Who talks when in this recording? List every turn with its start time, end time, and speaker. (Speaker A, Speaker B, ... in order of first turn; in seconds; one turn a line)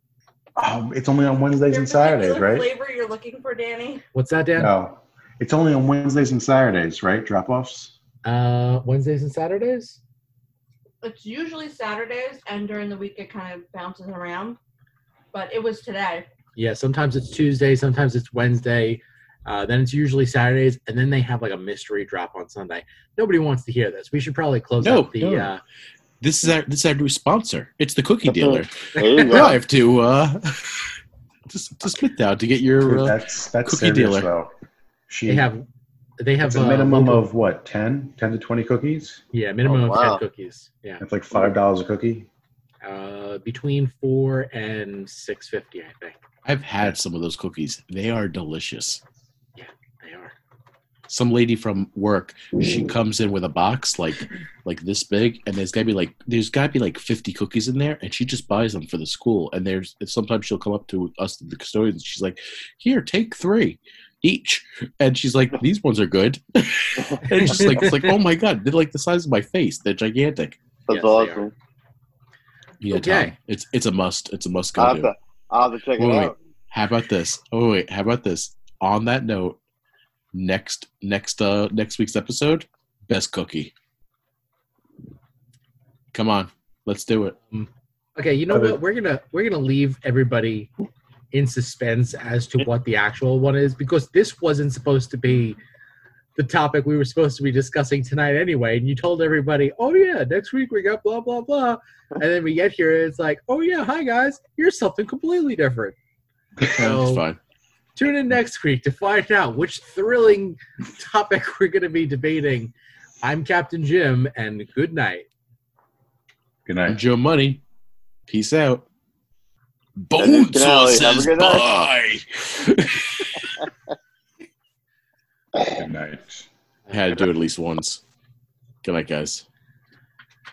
Speaker A: 0.6-2.7
Speaker B: 1.7-4.0
Speaker C: 4.1-4.7
Speaker A: 4.6-7.9
Speaker C: 8.2-10.0
Speaker B: 11.0-14.6
Speaker B: 15.3-16.3
Speaker C: 16.6-25.6
Speaker D: 24.8-25.5
Speaker D: 26.2-30.9
Speaker E: 28.2-29.5
Speaker C: 28.9-29.5
Speaker D: 31.5-34.3
Speaker A: 32.8-34.5
Speaker A: 35.1-35.5
Speaker C: 35.3-35.6
Speaker C: 36.2-37.2
Speaker A: 36.4-39.2
Speaker C: 39.3-41.0
Speaker E: 39.7-40.2
Speaker A: 41.0-42.3
Speaker C: 42.8-46.2
Speaker D: 46.4-49.0
Speaker C: 49.6-50.3
Speaker D: 51.1-70.6
Speaker C: 67.5-68.0
Speaker C: 70.9-71.5
Speaker E: 70.9-71.5
Speaker D: 72.8-75.1
Speaker C: 72.9-73.3
Speaker E: 74.8-76.3
Speaker D: 76.0-79.6
Speaker D: 80.3-83.7
Speaker D: 86.1-87.3
Speaker C: 87.5-90.7
Speaker A: 88.5-88.8
Speaker C: 91.3-95.6
Speaker C: 96.3-106.0
Speaker C: 106.6-107.2
Speaker D: 106.7-107.4
Speaker C: 108.0-115.3
Speaker A: 116.7-117.0
Speaker D: 116.9-117.6
Speaker D: 118.3-118.8
Speaker D: 120.0-123.6
Speaker E: 120.2-121.6
Speaker A: 125.6-126.5
Speaker D: 126.9-128.0
Speaker D: 128.8-129.4